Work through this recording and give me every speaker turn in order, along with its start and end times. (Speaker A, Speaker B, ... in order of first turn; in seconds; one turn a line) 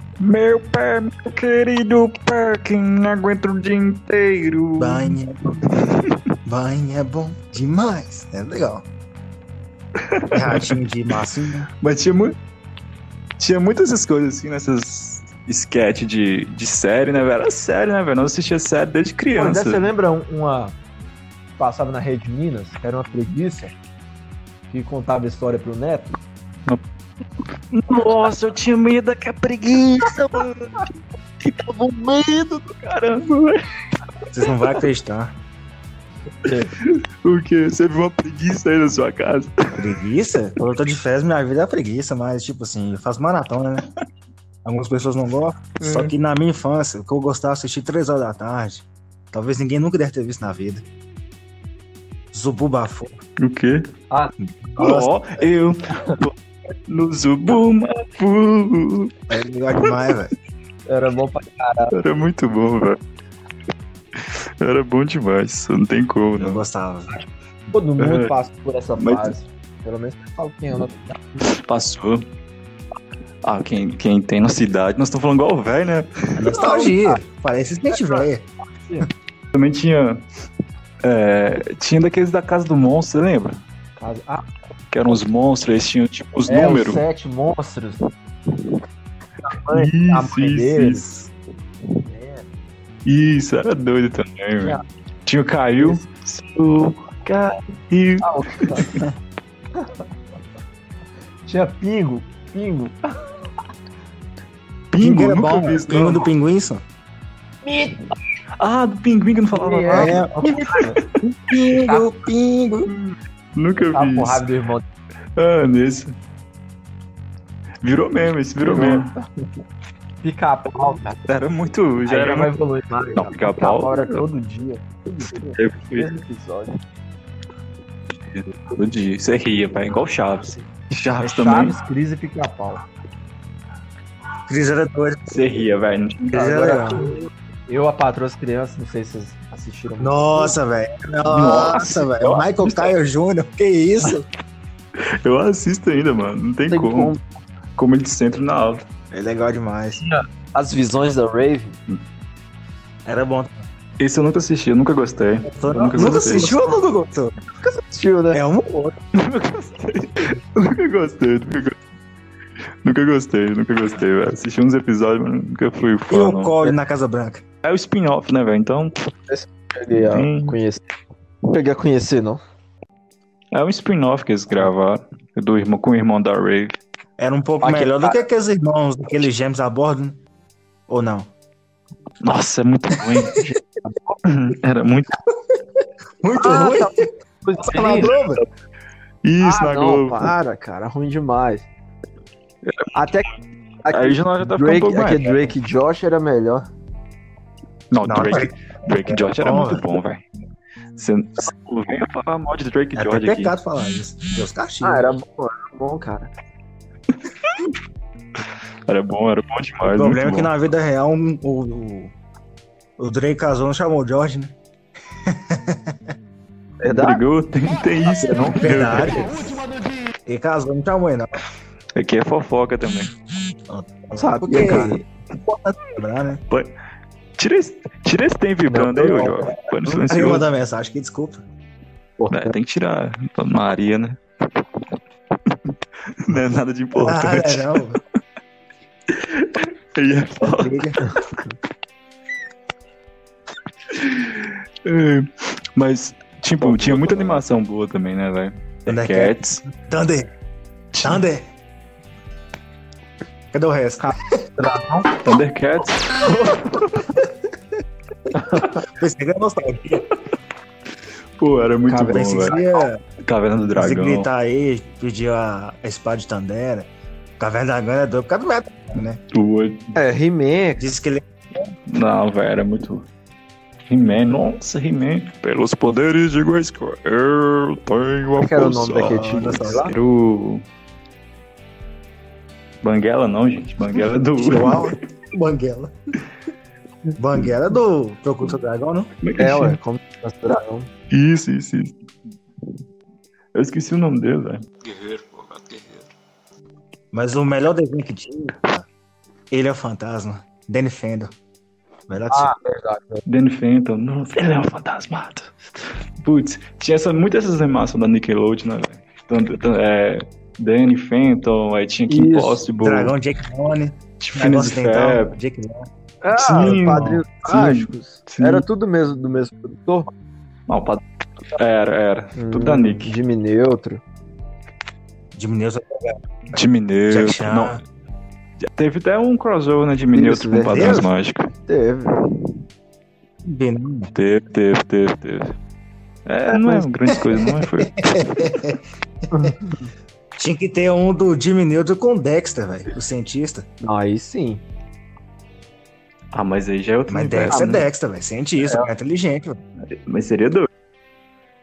Speaker A: 0.2-6.1
Speaker B: 4.8-5.6
Speaker B: 6.4-8.8
Speaker A: 10.1-10.8
Speaker B: 10.3-11.7
Speaker A: 11.8-12.3
Speaker A: 13.4-19.9
Speaker C: 19.3-20.7
Speaker C: 21.6-23.7
Speaker C: 24.7-26.1
Speaker A: 27.7-30.9
Speaker A: 31.4-33.6
Speaker B: 34.3-35.3
Speaker C: 36.4-36.7
Speaker A: 36.8-39.8
Speaker B: 39.7-43.9
Speaker B: 44.6-50.8
Speaker A: 45.8-46.1
Speaker B: 52.3-53.2
Speaker A: 53.4-53.9
Speaker B: 54.4-55.2
Speaker A: 54.8-56.3
Speaker A: 56.9-59.1
Speaker B: 59.3-60.3
Speaker C: 60.9-61.9
Speaker A: 61.9-63.0
Speaker A: 64.2-66.6
Speaker B: 66.4-67.2
Speaker C: 67.1-71.4
Speaker A: 68.0-68.3
Speaker A: 69.0-69.3
Speaker A: 71.4-72.2
Speaker A: 73.4-76.5
Speaker B: 76.3-78.5
Speaker C: 76.5-77.2
Speaker C: 77.9-78.2
Speaker C: 78.8-79.1
Speaker A: 79.5-80.2
Speaker A: 81.0-83.6
Speaker C: 84.0-84.5
Speaker A: 84.9-87.0
Speaker C: 86.5-88.0
Speaker C: 89.4-91.1
Speaker A: 89.7-91.3
Speaker C: 92.0-92.5
Speaker A: 93.0-99.0
Speaker C: 95.8-96.0
Speaker C: 98.2-99.0
Speaker C: 101.5-103.2
Speaker A: 104.9-106.3
Speaker B: 105.0-106.8
Speaker C: 107.6-108.0
Speaker A: 108.6-110.2
Speaker C: 109.5-111.0
Speaker B: 109.9-112.9
Speaker A: 112.9-114.4
Speaker C: 113.9-114.8
Speaker A: 115.3-116.1
Speaker A: 117.8-119.1
Speaker C: 118.6-119.2
Speaker C: 120.2-121.2
Speaker A: 121.2-122.5
Speaker C: 122.0-126.7
Speaker A: 123.2-124.2
Speaker A: 125.5-126.2
Speaker A: 128.2-131.8
Speaker C: 131.2-132.8
Speaker B: 134.5-135.3
Speaker A: 135.3-136.6
Speaker B: 136.3-137.0
Speaker C: 136.3-140.6
Speaker B: 140.0-144.2
Speaker A: 141.2-142.9
Speaker A: 145.2-147.1
Speaker C: 146.7-147.2
Speaker A: 147.8-148.8
Speaker B: 149.1-150.0
Speaker C: 150.0-151.8
Speaker B: 153.0-153.7
Speaker A: 154.0-156.6
Speaker B: 155.5-157.3
Speaker C: 155.9-156.7
Speaker C: 157.6-158.4
Speaker B: 158.3-159.0
Speaker A: 159.2-161.8
Speaker A: 162.8-166.6
Speaker B: 166.1-167.4
Speaker A: 167.6-168.9
Speaker C: 169.3-170.8
Speaker A: 170.1-170.6
Speaker C: 171.5-172.4
Speaker A: 173.5-176.8
Speaker B: 177.2-180.2
Speaker C: 177.6-178.2
Speaker B: 180.9-181.3
Speaker A: 182.2-183.4
Speaker C: 183.3-184.2
Speaker A: 184.2-185.1
Speaker B: 186.2-188.4
Speaker C: 186.3-188.1
Speaker A: 189.2-190.3
Speaker C: 189.4-191.7
Speaker C: 192.9-193.3
Speaker C: 193.8-196.7
Speaker A: 193.9-195.5
Speaker A: 197.9-200.2
Speaker B: 198.0-199.8
Speaker A: 200.9-203.5
Speaker B: 202.9-205.1
Speaker C: 204.8-206.3
Speaker A: 208.9-210.5
Speaker B: 209.8-212.1
Speaker B: 213.0-214.5
Speaker B: 215.2-216.0
Speaker C: 216.8-217.2
Speaker A: 216.9-219.3
Speaker B: 218.5-219.4
Speaker B: 220.2-221.3
Speaker A: 221.9-223.1
Speaker B: 223.7-226.4
Speaker C: 224.2-225.0
Speaker A: 227.4-230.4
Speaker C: 228.7-229.5
Speaker B: 229.8-231.4
Speaker C: 232.2-232.5
Speaker A: 232.3-234.2
Speaker A: 236.2-237.8
Speaker B: 236.9-238.0
Speaker A: 239.1-241.2
Speaker B: 240.4-241.0
Speaker C: 241.0-241.5
Speaker A: 243.9-249.6
Speaker B: 246.7-247.0
Speaker B: 248.9-250.3
Speaker A: 250.9-251.2
Speaker B: 251.0-251.5
Speaker B: 253.5-254.1
Speaker C: 254.0-255.1
Speaker A: 255.2-257.1
Speaker B: 258.8-260.1
Speaker A: 261.4-262.6
Speaker C: 261.9-262.7
Speaker B: 262.0-263.0
Speaker A: 263.2-264.3
Speaker B: 263.8-269.2
Speaker A: 269.3-269.9
Speaker C: 269.9-270.8
Speaker B: 270.8-271.7
Speaker A: 271.9-273.1
Speaker A: 273.9-280.6
Speaker C: 278.4-279.9
Speaker B: 279.0-279.9
Speaker A: 282.8-284.9
Speaker B: 284.4-285.9
Speaker B: 287.2-289.1
Speaker A: 289.2-289.8
Speaker C: 289.4-290.9
Speaker A: 291.1-291.9
Speaker A: 293.5-295.8
Speaker B: 297.1-298.9
Speaker B: 299.5-301.3
Speaker B: 302.1-302.5
Speaker C: 302.3-303.2
Speaker A: 303.2-305.5
Speaker A: 306.2-313.1
Speaker C: 312.1-312.6
Speaker B: 312.8-315.9
Speaker A: 314.2-315.4
Speaker C: 316.2-320.1
Speaker A: 316.4-318.6
Speaker B: 316.6-317.2
Speaker A: 320.7-321.0
Speaker A: 321.5-323.1
Speaker C: 322.4-324.0
Speaker B: 325.3-326.2
Speaker A: 326.5-327.8
Speaker B: 327.1-327.8
Speaker A: 328.6-331.5
Speaker C: 330.1-331.0
Speaker B: 330.7-331.1
Speaker C: 331.7-332.1
Speaker B: 333.4-334.1
Speaker A: 334.1-335.5
Speaker A: 336.3-338.6
Speaker C: 336.5-336.9
Speaker B: 337.3-338.8
Speaker C: 339.3-339.9
Speaker B: 340.4-343.6
Speaker C: 343.8-344.6
Speaker A: 346.3-347.9
Speaker B: 347.1-349.6
Speaker A: 349.9-350.7